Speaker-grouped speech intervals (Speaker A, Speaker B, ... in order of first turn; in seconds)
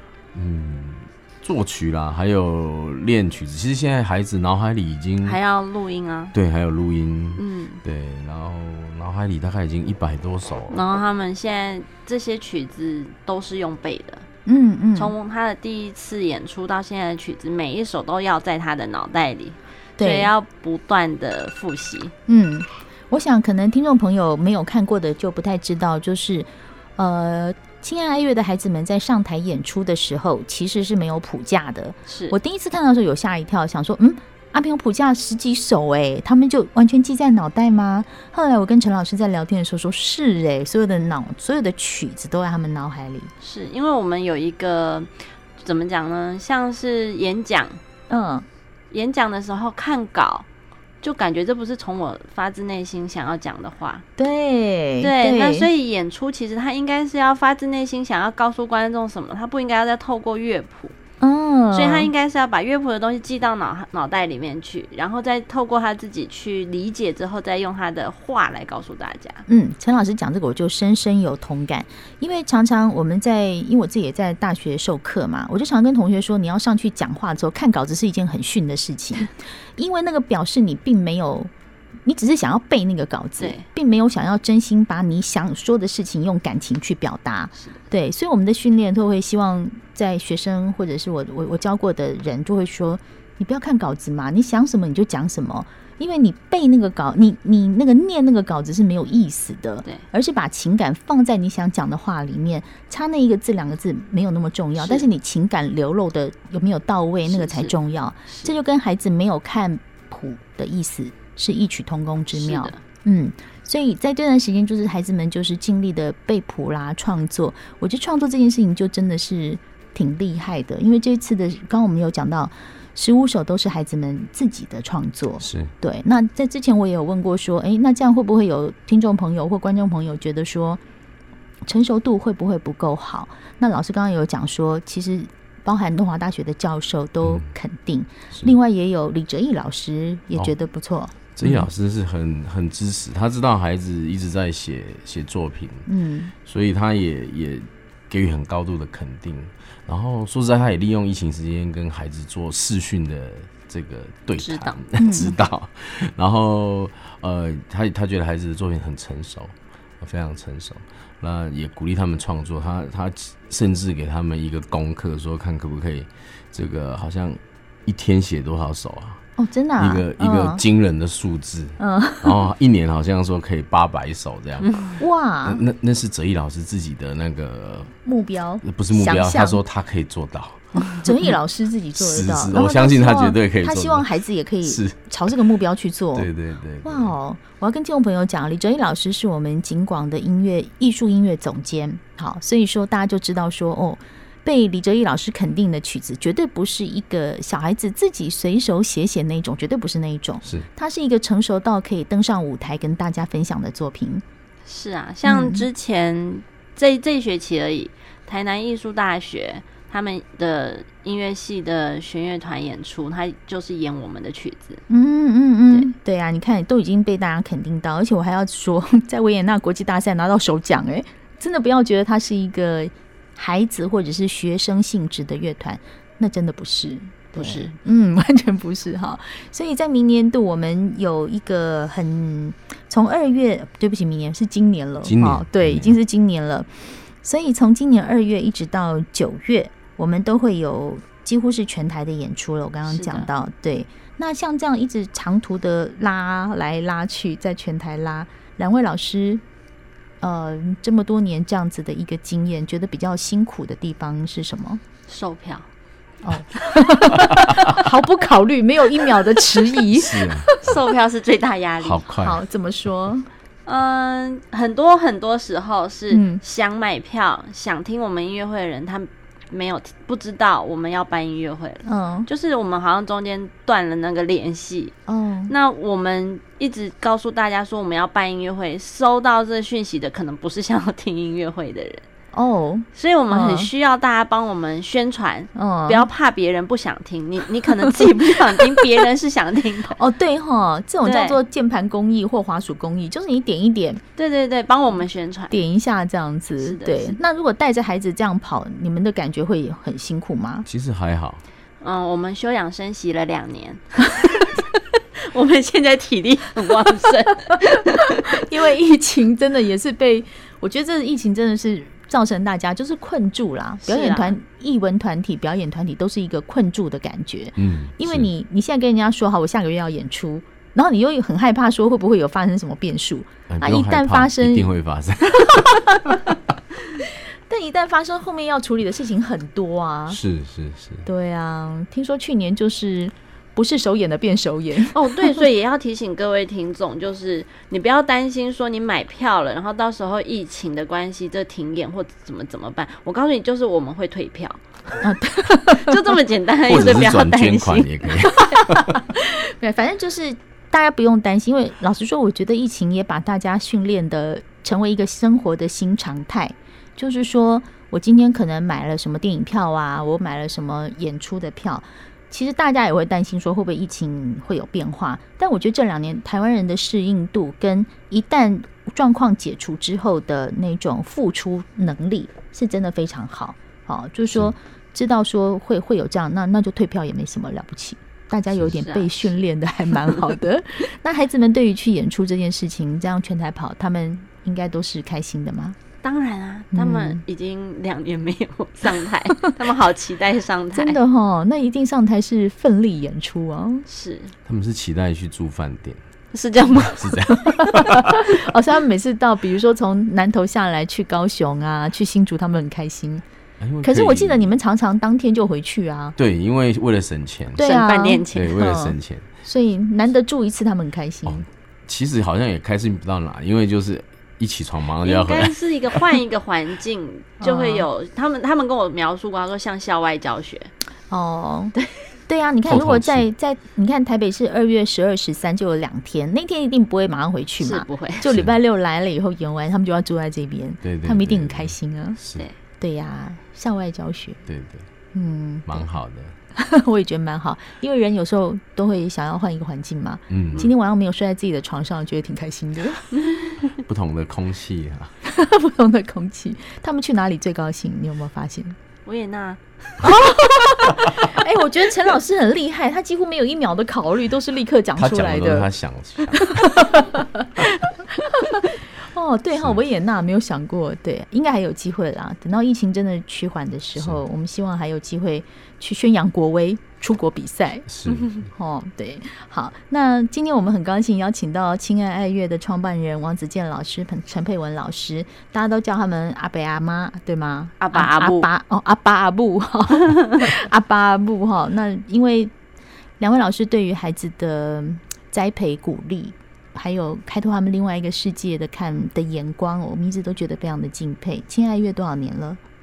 Speaker A: 0.3-5.4, 6.3-10.8, 125.4-125.7, 137.2-137.5, 141.3-145.9, 146.4-169.2, 169.8-174.8, 175.4-177.9, 178.6-180.9, 181.9-184.1, 184.6-185.4, 186.1-187.1, 235.0-235.9, 257.2-257.7, 259.9-260.8, 261.8-262.4, 300.6-301.4, 317.6-318.3, 323.5-326.2, 330.1-331.1, 346.7-348.9, 394.4-396.0, 396.8-398.3, 403.6-404.6, 406.2-407.7, 408.3-409.3, 411.2-416.1, 422.6-423.3, 428.3-428.6, 430.8-432.5, 434.5-434.9, 435.6-436.3, 440.3-440.7, 443.8-445.1, 454.9-456.9, 459.5-459.8, 463.9-464.2, 467.9-468.5
Speaker B: 5.2-6.3, 7.3-7.8, 10.7-14.2, 14.9-22.1, 32.1-32.4, 43.4-47.8, 48.9-50.5, 51.0-54.0, 55.0-60.9, 61.7-69.4, 83.4-83.6, 104.8-105.0, 107.3-107.7, 108.3-108.5, 112.3-112.8, 154.4-154.8, 174.7-174.9, 204.6-214.8, 227.3-227.7, 242.8-243.3, 255.1-255.7, 260.6-262.1, 263.6-274.9, 275.5-282.0, 282.9-290.0, 291.0-291.4, 294.1-295.6, 296.6-297.2, 301.8-308.4, 313.8-314.4, 334.8-344.6, 345.7-347.9, 378.8-379.3, 386.0-391.0, 393.9-394.3, 396.3-397.2, 407.6-408.5, 415.0-420.7, 427.6-428.3, 449.0-449.6, 477.8-478.5
Speaker C: 14.4-15.1, 20.0-20.3, 22.3-43.3, 48.1-48.5, 54.2-55.7, 61.2-62.1, 69.5-81.5, 82.0-130.8, 131.7-141.7, 145.9-146.3, 155.0-155.3, 169.4-170.6, 171.8-172.4, 175.0-175.6, 178.0-179.6, 180.9-186.3, 186.8-204.2, 205.2-205.7, 214.9-249.4, 250.2-254.8, 256.2-260.7, 262.2-263.2, 266.1-266.4, 271.8-272.3, 275.1-275.5, 282.3-283.7, 285.5-286.1, 289.9-294.0, 295.5-300.7, 308.3-324.7, 325.5-326.3, 327.5-330.2, 331.0-335.4, 345.0-346.0, 348.3-385.8, 386.7-387.2, 390.7-393.8, 397.5-403.2, 403.8-406.1, 407.6-411.4, 417.4-417.9, 421.1-421.7, 422.3-432.2, 432.8-434.4, 435.1-435.8, 436.6-443.2, 445.3-448.8, 450.0-455.7, 456.3-457.7, 458.2-467.9, 468.5-482.5, 483.2-492.6